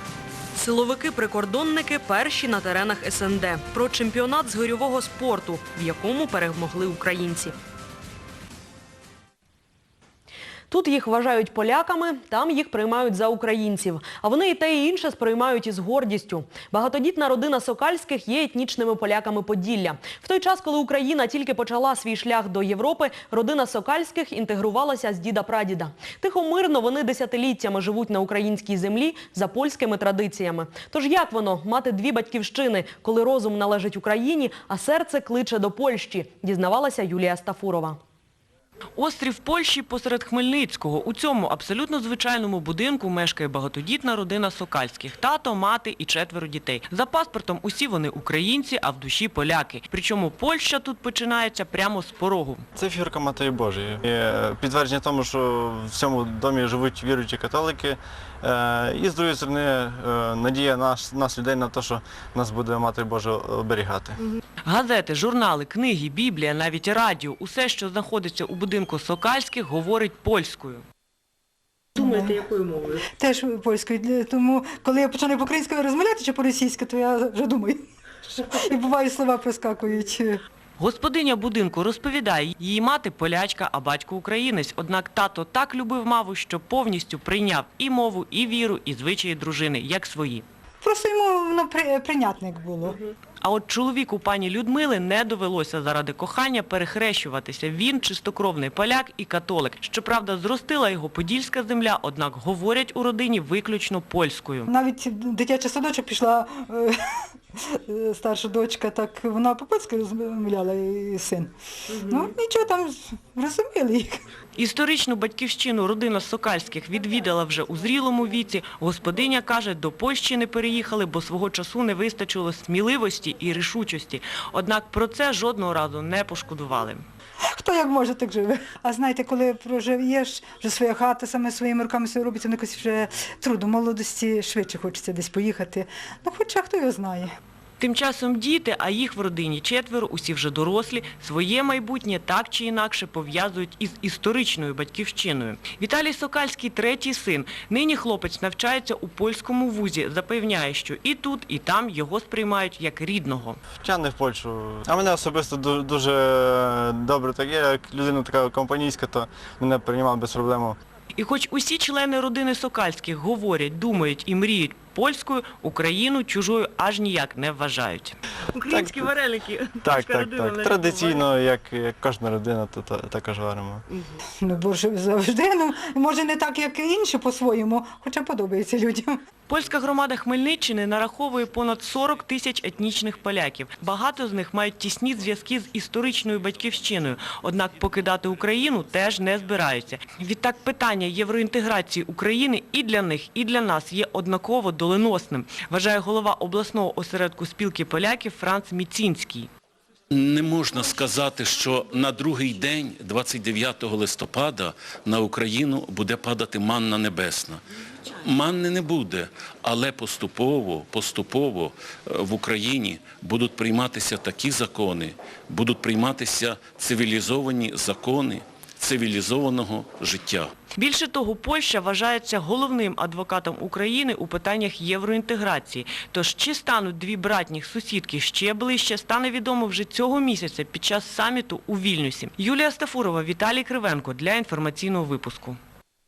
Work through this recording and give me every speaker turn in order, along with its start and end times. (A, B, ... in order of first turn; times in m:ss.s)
0:00.5-0:07.5 A
0:10.7-0:38.0 A
0:39.0-0:52.6 B
0:52.8-1:04.2 C
1:04.6-1:10.8 B
1:12.0-1:12.5 D
1:12.2-1:13.0 B
1:13.0-1:20.4 D
1:20.8-1:30.4 B
1:30.8-1:33.0 D
1:33.4-1:44.7 B
1:44.7-1:47.0 D
1:47.6-1:54.2 D
1:54.6-2:07.0 B
2:07.5-2:17.4 D
2:17.8-2:33.6 B
2:33.8-2:40.8 C
2:41.2-2:51.2 B
2:48.7-2:49.1 C
2:49.8-2:53.8 C
2:54.4-2:59.2 D
2:59.5-3:19.5 B
3:20.1-3:27.6 E
3:28.2-3:40.5 E
3:40.7-3:55.6 B